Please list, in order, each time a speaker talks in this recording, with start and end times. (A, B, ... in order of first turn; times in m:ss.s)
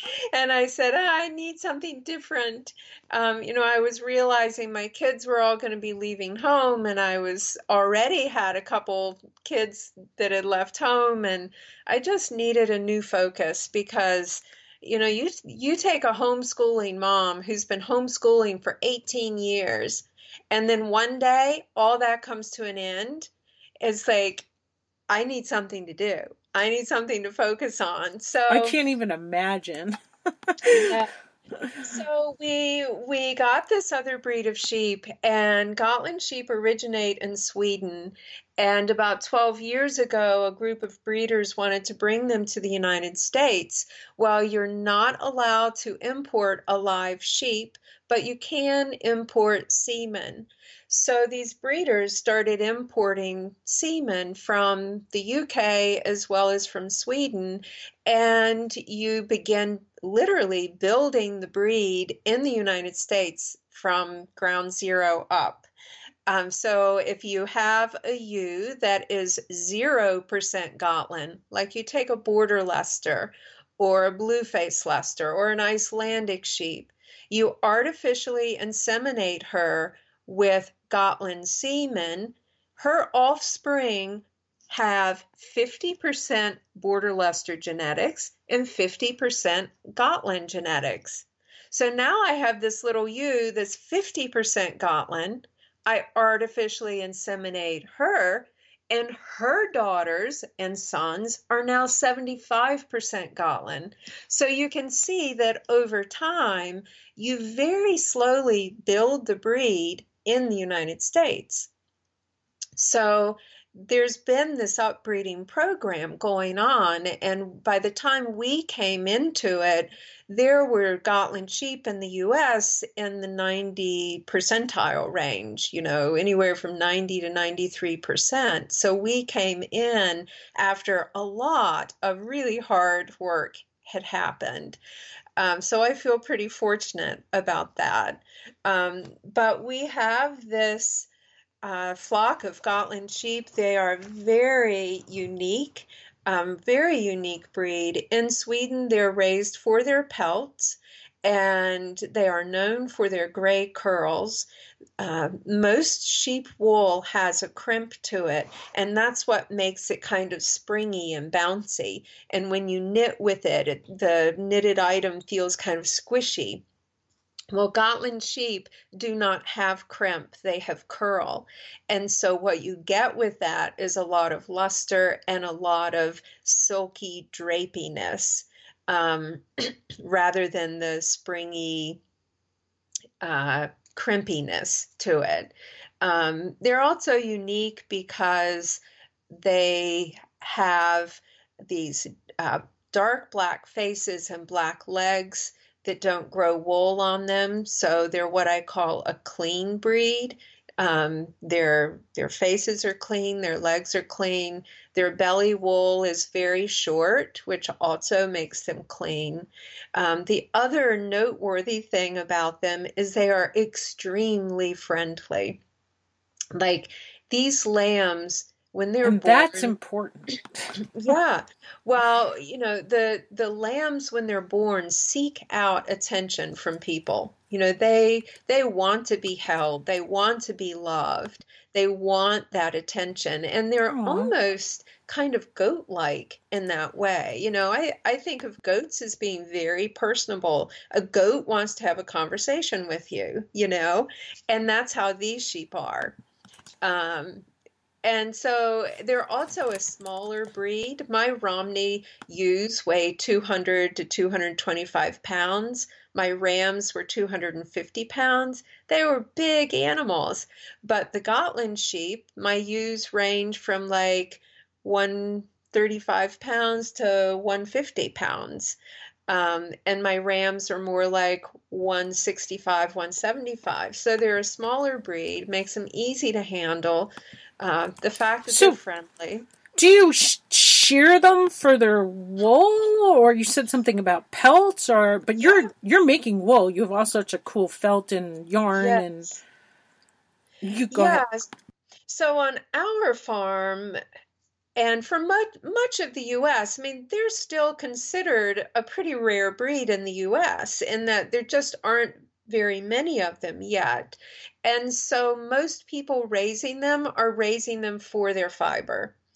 0:00.3-0:23.3 A
0:23.8-0:24.5 A
0:25.1-0:28.8 A
0:28.5-0:31.0 B
0:30.7-0:31.1 A
0:31.6-0:32.0 B
0:31.8-1:05.7 A
1:06.3-1:51.7 A
1:52.8-2:14.8 A
2:15.4-2:21.1 A
2:21.6-2:34.5 A
2:35.0-2:46.6 A
2:47.5-3:02.0 A
3:03.2-3:35.6 A
3:36.6-3:39.8 A
3:39.0-3:40.7 B
3:41.0-4:06.2 A
3:53.9-3:54.3 B
4:06.8-4:07.5 A
4:08.0-4:39.4 A
4:38.5-4:38.8 B
4:39.8-4:49.4 B
4:48.8-4:49.4 A
4:50.6-4:51.2 B
4:50.9-4:51.5 A
4:52.1-4:54.0 A
4:54.8-5:09.2 A